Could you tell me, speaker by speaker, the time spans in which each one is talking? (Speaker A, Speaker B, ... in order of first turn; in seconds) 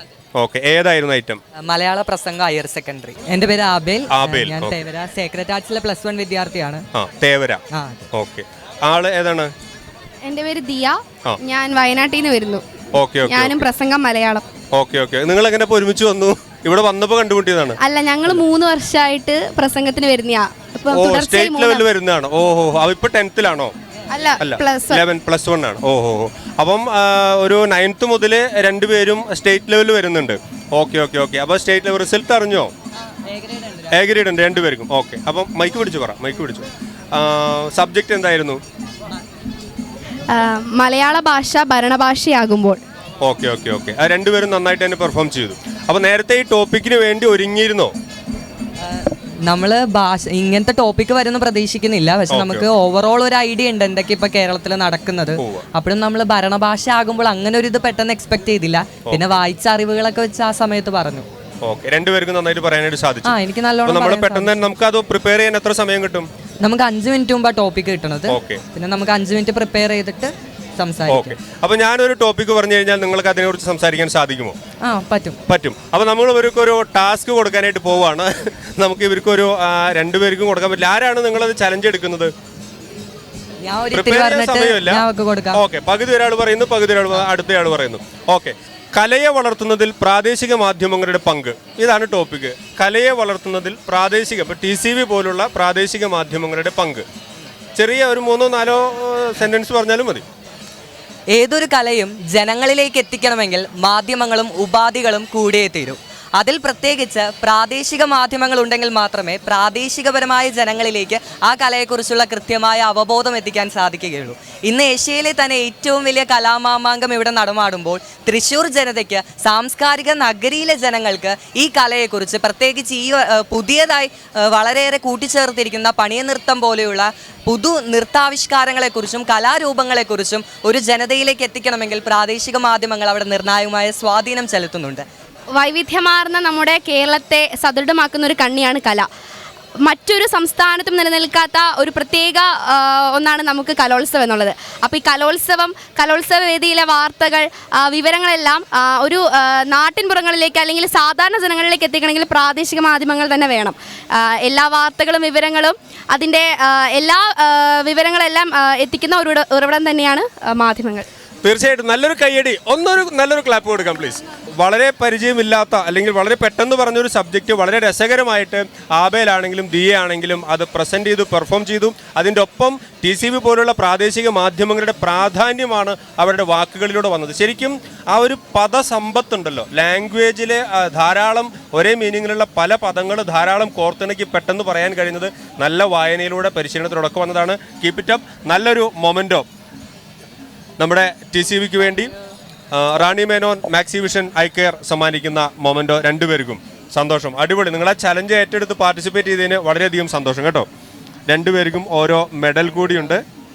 Speaker A: 0.4-1.4, 4.1-4.8, 6.9-9.5, 12.9-13.7, 14.7-18.4, 20.9-23.7, 24.4-32.7, 33.9-38.6, 43.2-47.9, 52.3-52.6, 55.4-55.6, 59.0-59.4, 61.6-66.3, 68.3-68.6, 71.1-74.6, 75.5-82.3, 83.9-97.0, 97.8-100.2, 161.4-189.5, 190.8-192.1, 192.7-200.7, 201.3-203.2
Speaker B: 1.6-6.8, 7.7-8.1, 33.2-33.9, 48.8-61.2, 63.2-64.6, 66.6-71.4, 74.8-75.4, 83.6-85.6, 101.3-135.1
Speaker C: 10.2-12.6, 13.3-14.4, 17.8-21.8, 24.1-25.0, 40.3-42.8, 135.5-139.1, 139.8-161.1